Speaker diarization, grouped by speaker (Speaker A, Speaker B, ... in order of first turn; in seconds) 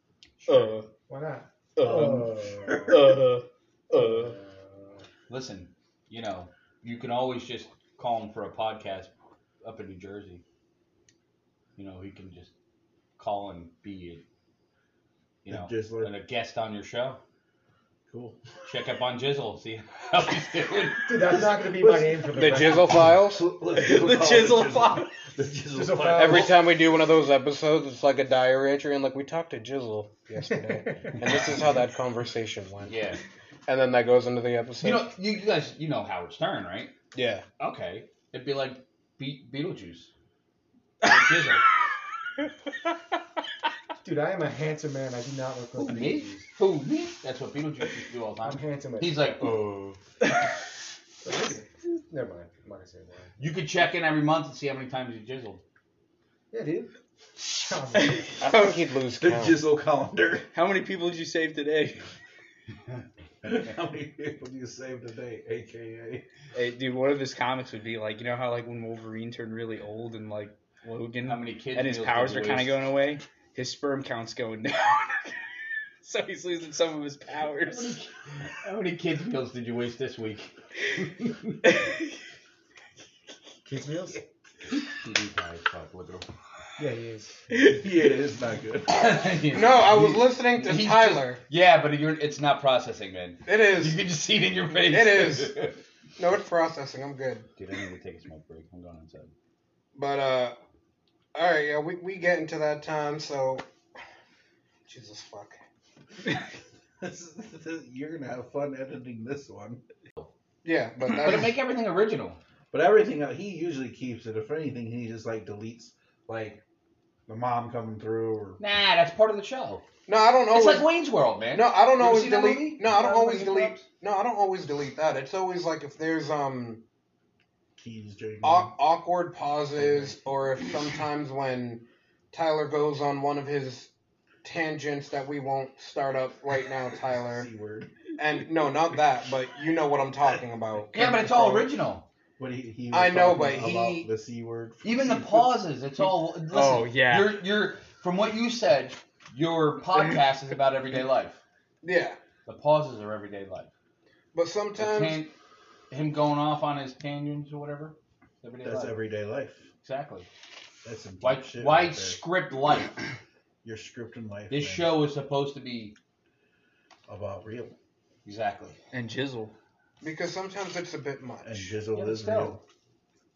Speaker A: 0.5-0.7, 2.6-3.2, 15.5-16.1, 18.1-18.4, 21.2-26.6, 59.2-60.5, 63.4-66.2, 87.6-89.3, 107.0-109.8, 112.7-116.6, 117.3-118.6, 127.8-128.7, 137.2-137.9, 142.4-145.5, 158.6-159.7, 160.8-162.2, 163.6-164.9, 167.1-167.8, 171.4-172.6
Speaker B: 0.5-0.8, 1.8-2.3, 2.8-4.3, 23.7-25.1, 58.0-58.7, 60.5-62.0, 66.5-75.3, 76.0-78.0, 123.1-123.4, 146.5-147.4, 168.9-169.5
Speaker C: 1.1-3.2, 3.9-5.0, 21.0-23.1, 25.7-26.6, 44.0-46.5, 48.4-49.5, 51.2-53.3, 56.5-56.9, 57.5-58.3, 83.6-84.2, 86.8-87.5
Speaker D: 5.3-9.1, 9.6-10.4, 11.8-12.5, 13.2-14.2, 15.4-17.2, 18.6-21.4, 32.9-33.2, 34.8-36.9, 37.6-40.1, 41.0-41.6, 45.8-50.0, 53.4-55.6, 71.2-72.8, 77.6-78.1, 78.6-81.3, 84.8-86.2, 88.9-95.8, 97.6-99.3, 111.0-112.4, 118.6-119.8, 120.5-123.8, 140.9-142.1, 144.8-151.4, 152.4-153.7, 154.8-155.3, 155.9-159.0, 159.8-160.3, 161.2-163.0, 164.5-165.9, 168.2-168.8, 171.9-172.5
Speaker E: 22.3-23.5, 26.1-32.9, 33.6-35.1, 37.1-37.4, 58.4-59.6, 89.5-91.4, 93.5-94.0, 94.8-95.6, 96.2-97.5, 99.9-100.5, 101.3-103.7, 104.9-105.6, 110.6-111.5, 120.1-120.9, 121.5-126.8, 128.4-133.9, 134.4-137.5, 138.2-141.7, 142.9-144.1, 151.8-152.2, 154.3-155.2, 170.0-171.8